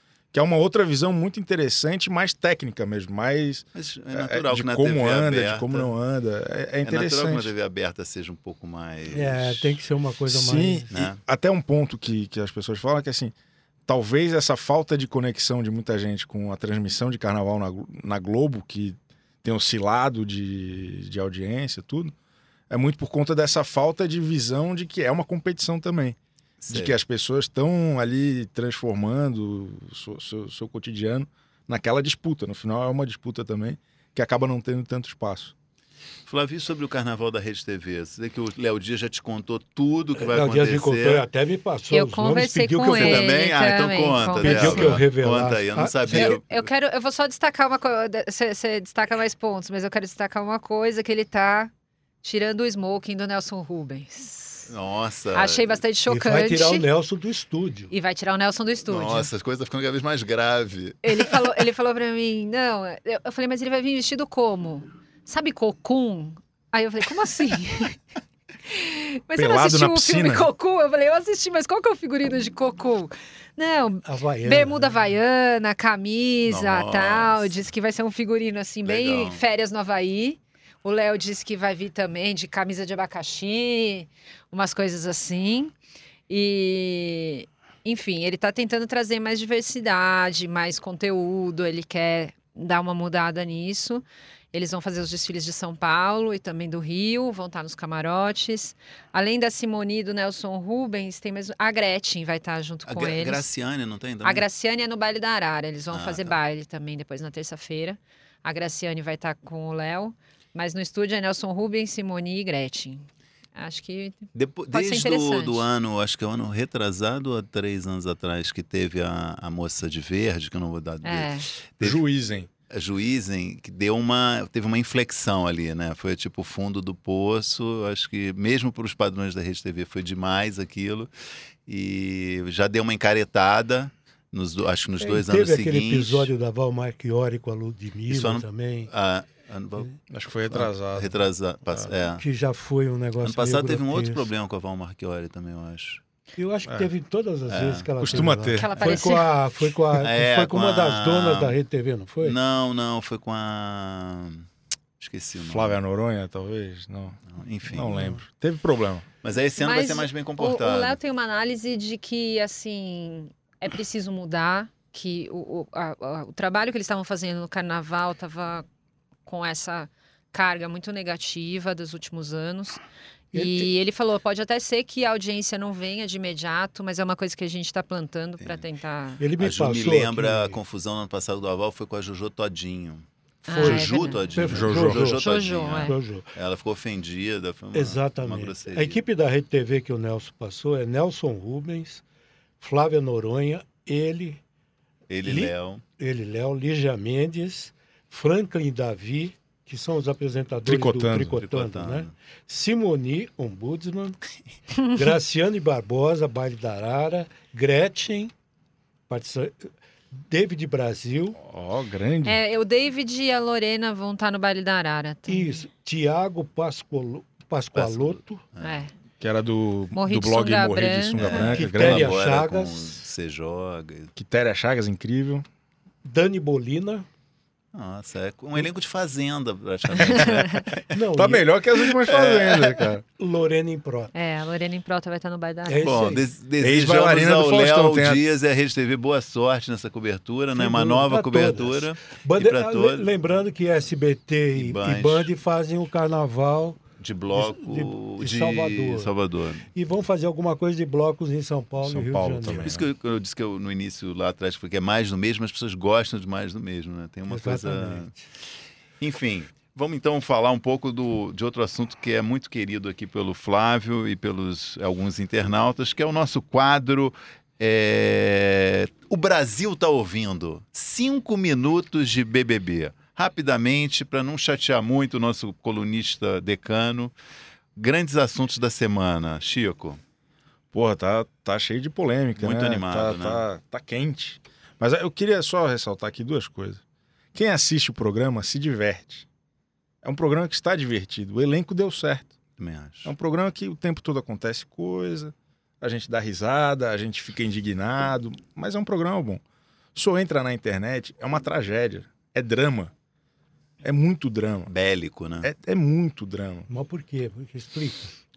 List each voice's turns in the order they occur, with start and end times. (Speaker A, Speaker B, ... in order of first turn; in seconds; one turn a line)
Speaker A: 0.3-7.5
Speaker B: 3.8-5.9
Speaker B: 6.8-9.8
Speaker C: 9.1-10.9
Speaker A: 10.3-13.3
Speaker B: 10.9-11.2
Speaker A: 13.9-22.1
Speaker A: 22.7-26.2
Speaker B: 26.6-27.0
Speaker A: 26.7-35.5
Speaker B: 36.3-41.2
Speaker C: 40.2-43.3
Speaker D: 41.9-45.0
Speaker B: 42.9-46.7
Speaker C: 44.4-46.3
Speaker D: 46.1-51.7
Speaker D: 52.2-54.7
Speaker B: 54.7-55.8
Speaker D: 55.3-56.9
Speaker C: 56.1-57.9
Speaker D: 57.9-59.3
Speaker B: 58.9-61.3
Speaker D: 61.0-68.0
Speaker D: 68.7-85.7
Speaker A: 69.3-70.5
Speaker C: 74.0-74.9
Speaker B: 76.5-77.7
Speaker B: 78.8-79.4
Speaker D: 86.3-103.5
Speaker B: 102.9-104.5
Speaker D: 104.2-115.7
Speaker B: 105.9-106.4
Speaker B: 114.3-122.0
Speaker D: 121.0-121.5
Speaker A: 121.8-122.5
Speaker B: 122.7-131.1
Speaker B: 131.7-136.3
Speaker C: 135.0-138.9
Speaker B: 138.1-142.2
Speaker A: 140.1-142.0
Speaker C: 142.2-144.3
Speaker B: 143.2-146.0
Speaker C: 146.4-152.4
Speaker B: 147.5-148.2
Speaker A: 148.0-148.7
Speaker D: 148.6-149.3
Speaker B: 148.8-149.2
Speaker B: 149.9-151.6
Speaker B: 152.2-154.5
Speaker B: 155.0-155.8
Speaker A: 155.4-159.1
Speaker B: 157.3-158.0
Speaker C: 157.9-158.2
Speaker B: 159.2-161.0
Speaker D: 159.6-168.7
Speaker D: 169.3-172.8
Speaker C: 173.3-173.7
Speaker D: 173.3-179.2
Speaker B: 178.4-178.7
Speaker C: 179.2-180.6
Speaker B: 179.4-189.0
Speaker D: 183.5-184.2
Speaker C: 183.5-185.2
Speaker A: 184.5-185.0
Speaker D: 185.2-186.0
Speaker C: 185.8-186.3
Speaker C: 187.7-192.0
Speaker C: 192.6-194.4
Speaker B: 195.1-195.8
Speaker C: 195.2-204.2
Speaker A: 200.6-201.4
Speaker B: 201.2-202.1
Speaker C: 204.9-208.3
Speaker C: 209.1-211.4
Speaker A: 211.4-212.4
Speaker D: 212.2-215.6
Speaker C: 215.3-218.4
Speaker B: 217.7-218.8
Speaker D: 218.6-218.9
Speaker A: 219.2-222.2
Speaker D: 219.9-221.2
Speaker B: 221.2-224.1
Speaker C: 221.3-223.1
Speaker A: 224.2-225.4
Speaker C: 226.1-227.1
Speaker B: 227.7-230.8
Speaker D: 230.2-230.6
Speaker C: 230.9-231.5
Speaker A: 231.1-233.0
Speaker B: 232.1-232.8
Speaker C: 233.2-234.1
Speaker D: 234.1-235.9
Speaker C: 235.7-236.2
Speaker B: 235.8-243.2
Speaker A: 236.6-238.2
Speaker C: 240.6-246.8
Speaker B: 244.6-245.3
Speaker B: 247.0-249.7
Speaker C: 247.3-249.1
Speaker C: 249.7-252.7
Speaker A: 251.8-252.9
Speaker B: 252.6-258.1
Speaker C: 257.3-258.2
Speaker B: 259.0-277.1
Speaker B: 277.8-280.0
Speaker A: 280.7-286.8
Speaker B: 282.4-283.4
Speaker A: 287.3-289.3
Speaker A: 290.0-292.3
Speaker B: 292.6-293.1
Speaker A: 293.1-299.4
Speaker A: 299.9-302.9
Speaker A: 303.8-304.7
Speaker B: 304.7-305.5
Speaker A: 305.4-306.7
Speaker C: 306.7-308.1